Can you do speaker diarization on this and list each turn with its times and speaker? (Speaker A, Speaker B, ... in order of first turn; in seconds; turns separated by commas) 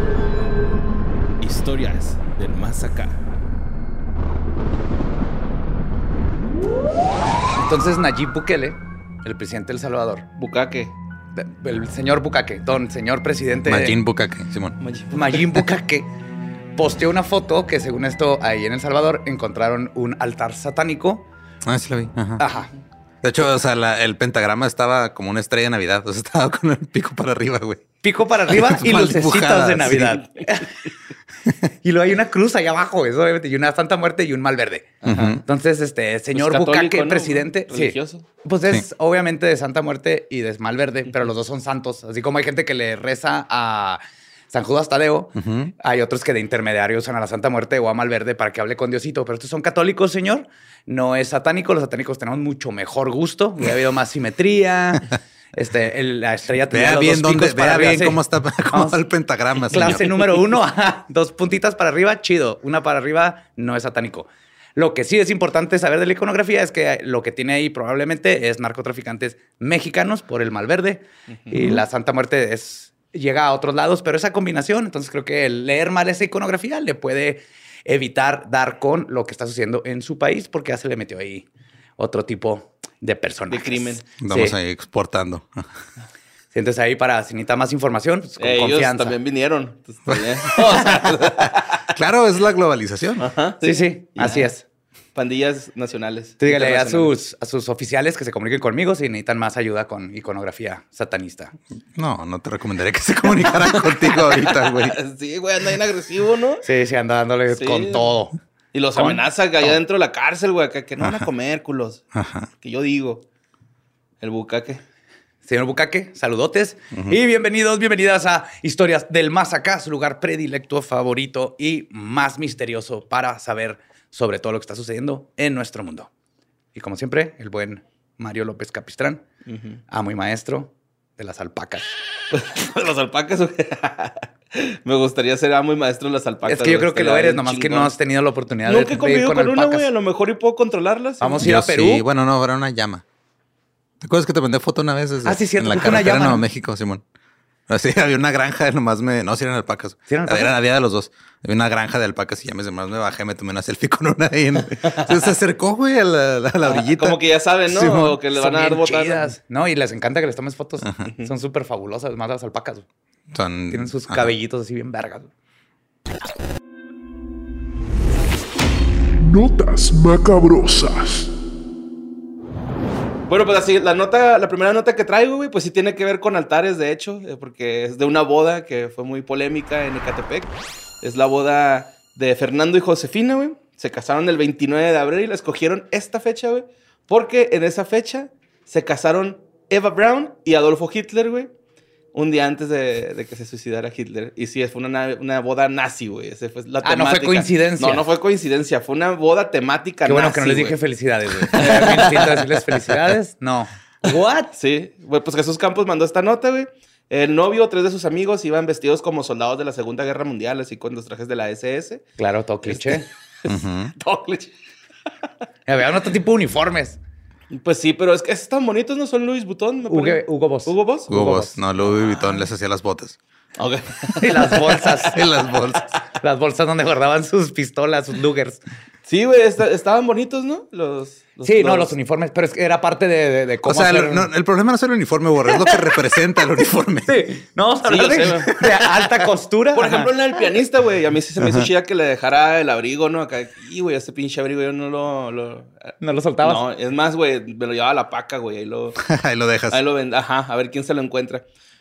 Speaker A: 1.4-3.2, Speaker B: 7.5-10.2, Speaker A: 10.4-10.9, Speaker B: 11.4-14.0, Speaker C: 13.7-14.8, Speaker A: 14.8-15.4, Speaker B: 15.1-16.1, Speaker B: 16.8-21.2, Speaker C: 21.6-22.4, Speaker B: 22.4-22.7, Speaker C: 23.2-27.8, Speaker B: 28.0-30.7, Speaker C: 28.5-30.2, Speaker B: 31.8-59.0, Speaker A: 35.0-35.4, Speaker C: 35.1-35.4, Speaker A: 36.3-38.2, Speaker C: 45.4-45.7, Speaker C: 56.7-60.0, Speaker B: 59.7-81.5, Speaker A: 71.5-71.8, Speaker B: 82.0-84.5, Speaker A: 83.5-84.0, Speaker C: 84.2-85.7, Speaker B: 86.5-89.2, Speaker A: 88.4-91.8, Speaker C: 90.1-93.3, Speaker A: 93.2-94.5, Speaker B: 93.6-94.6, Speaker A: 95.2-97.1, Speaker B: 96.4-101.5, Speaker C: 102.0-105.0, Speaker A: 103.6-106.7, Speaker B: 106.7-108.4, Speaker A: 107.5-108.2, Speaker A: 108.7-112.0, Speaker B: 109.0-109.2, Speaker C: 111.0-111.2, Speaker C: 112.1-112.5, Speaker A: 112.6-113.2, Speaker A: 114.2-114.8, Speaker B: 115.5-126.1, Speaker B: 126.8-129.2, Speaker A: 129.5-129.8, Speaker B: 129.9-131.9, Speaker A: 132.3-137.9, Speaker B: 136.5-139.9, Speaker A: 138.7-141.5, Speaker B: 141.2-142.1, Speaker C: 141.4-143.0, Speaker C: 144.0-147.0, Speaker B: 145.2-146.4, Speaker C: 147.7-158.2, Speaker B: 150.1-150.5, Speaker A: 156.7-159.3, Speaker B: 158.2-162.8, Speaker A: 161.0-161.3, Speaker C: 163.3-164.3, Speaker B: 163.7-165.3, Speaker D: 169.2-171.3, Speaker A: 173.3-191.5, Speaker A: 192.1-200.8, Speaker B: 196.8-198.1, Speaker B: 200.1-204.6, Speaker A: 201.5-202.6, Speaker A: 204.6-212.0, Speaker B: 212.2-213.1, Speaker A: 212.7-214.5, Speaker C: 213.5-213.9, Speaker B: 215.7-217.0, Speaker A: 217.5-221.1, Speaker B: 219.9-221.6, Speaker C: 221.1-223.2, Speaker A: 223.6-225.0, Speaker B: 224.2-225.2, Speaker C: 225.1-225.9, Speaker B: 226.2-228.6, Speaker A: 229.1-231.9, Speaker B: 231.4-234.3, Speaker C: 233.7-237.1, Speaker B: 237.1-240.1, Speaker A: 237.8-238.6, Speaker C: 238.6-238.9, Speaker A: 239.7-249.0, Speaker C: 241.4-241.7, Speaker B: 246.0-246.6, Speaker C: 249.0-249.8, Speaker A: 249.7-251.5